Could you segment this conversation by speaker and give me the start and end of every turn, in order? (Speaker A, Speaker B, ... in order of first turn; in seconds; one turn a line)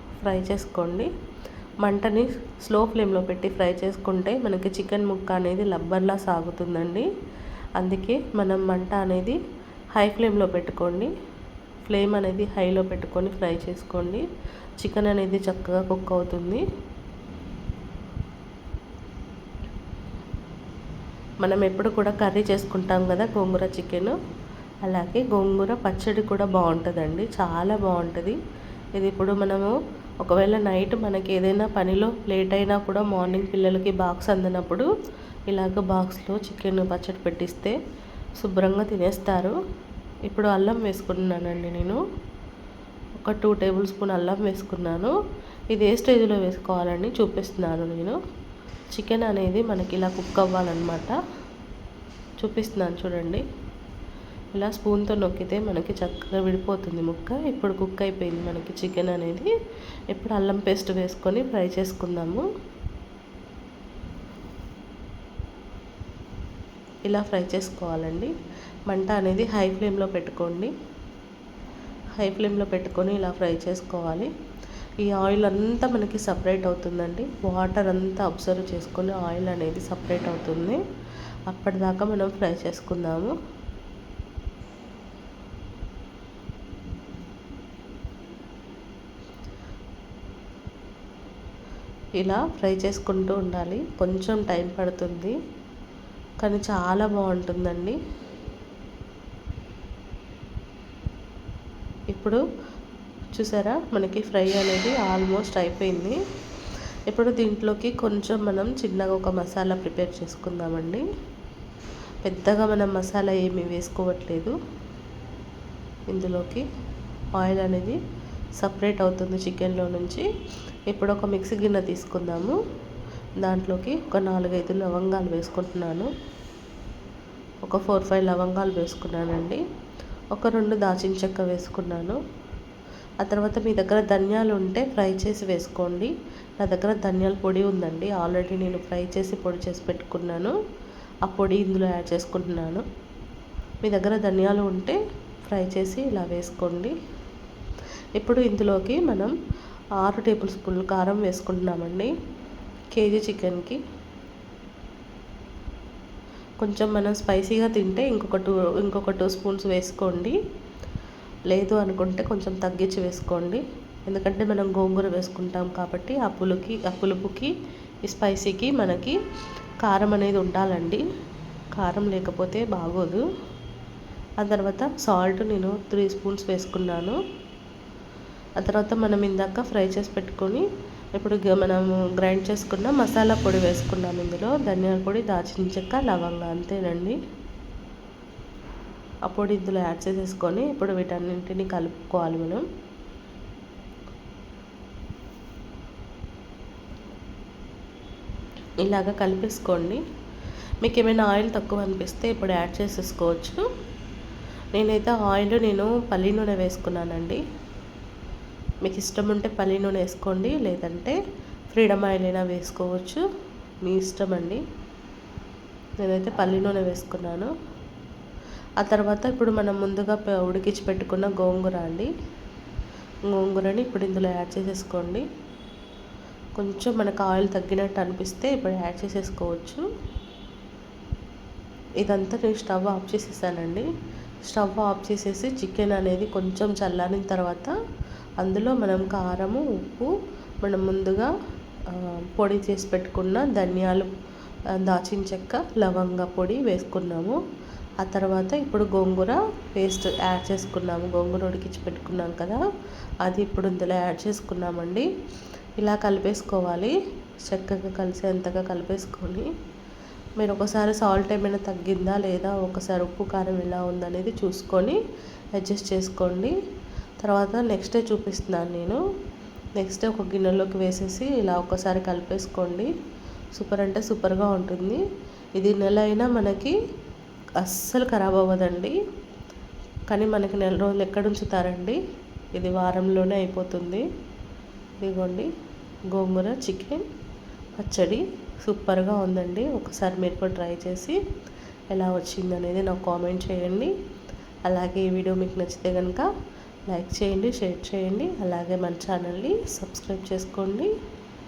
Speaker A: 0.2-1.1
Speaker A: 1.8-7.1
Speaker A: 7.8-9.4
Speaker A: 9.9-11.1
Speaker A: 11.9-14.2
Speaker A: 14.8-16.6
Speaker A: 21.4-24.2
Speaker A: 24.8-28.4
Speaker A: 29.0-34.9
Speaker A: 35.5-37.8
Speaker A: 38.4-39.6
Speaker A: 40.3-42.0
Speaker A: 43.2-45.1
Speaker A: 45.7-48.2
Speaker A: 48.9-51.2
Speaker A: 52.4-53.4
Speaker A: 54.5-59.5
Speaker A: 60.1-62.5
Speaker A: 67.1-68.3
Speaker A: 68.9-70.7
Speaker A: 72.2-74.3
Speaker A: 75.0-80.8
Speaker A: 81.5-83.3
Speaker A: 92.2-95.3
Speaker A: 96.4-98.0
Speaker A: 102.1-102.4
Speaker A: 103.3-106.2
Speaker A: 107.1-111.0
Speaker A: 112.2-114.5
Speaker A: 116.1-116.7
Speaker A: 117.4-118.0
Speaker A: 118.6-120.3
Speaker A: 120.9-122.6
Speaker A: 123.4-126.1
Speaker A: 127.7-129.6
Speaker A: 130.3-132.2
Speaker A: 133.2-140.5
Speaker A: 141.3-142.8
Speaker A: 143.8-146.9
Speaker A: 148.2-149.3
Speaker A: 150.0-152.1
Speaker A: 152.9-153.8
Speaker A: 156.6-160.4
Speaker A: 161.5-167.5
Speaker A: 168.1-169.2
Speaker A: 169.8-171.0
Speaker A: 171.7-173.3
Speaker A: 174.4-177.2
Speaker A: 178.6-180.7
Speaker A: 181.2-187.2
Speaker A: 189.3-192.7
Speaker A: 198.8-200.0
Speaker A: 200.8-203.6
Speaker A: 204.7-207.4
Speaker A: 208.8-211.2
Speaker A: 211.7-213.2
Speaker A: 213.8-214.6
Speaker A: 216.0-217.5
Speaker A: 218.8-222.1
Speaker A: 223.3-225.3
Speaker A: 226.6-229.8
Speaker A: 232.0-233.8
Speaker A: 234.4-237.7
Speaker A: 238.4-240.1
Speaker A: 240.6-241.3
Speaker A: 241.9-244.1
Speaker A: 244.7-247.4
Speaker A: 248.0-252.6
Speaker A: 253.2-255.1
Speaker A: 255.8-256.9
Speaker A: 257.5-259.5
Speaker A: 260.4-265.0
Speaker A: 265.6-266.5
Speaker A: 267.2-269.0
Speaker A: 269.8-272.9
Speaker A: 273.5-275.0
Speaker A: 275.6-276.8
Speaker A: 277.6-279.0
Speaker A: 280.1-282.0
Speaker A: 282.5-284.1
Speaker A: 285.0-285.5
Speaker A: 286.1-287.0
Speaker A: 287.8-291.2
Speaker A: 291.9-293.9
Speaker A: 294.7-296.3
Speaker A: 296.9-300.9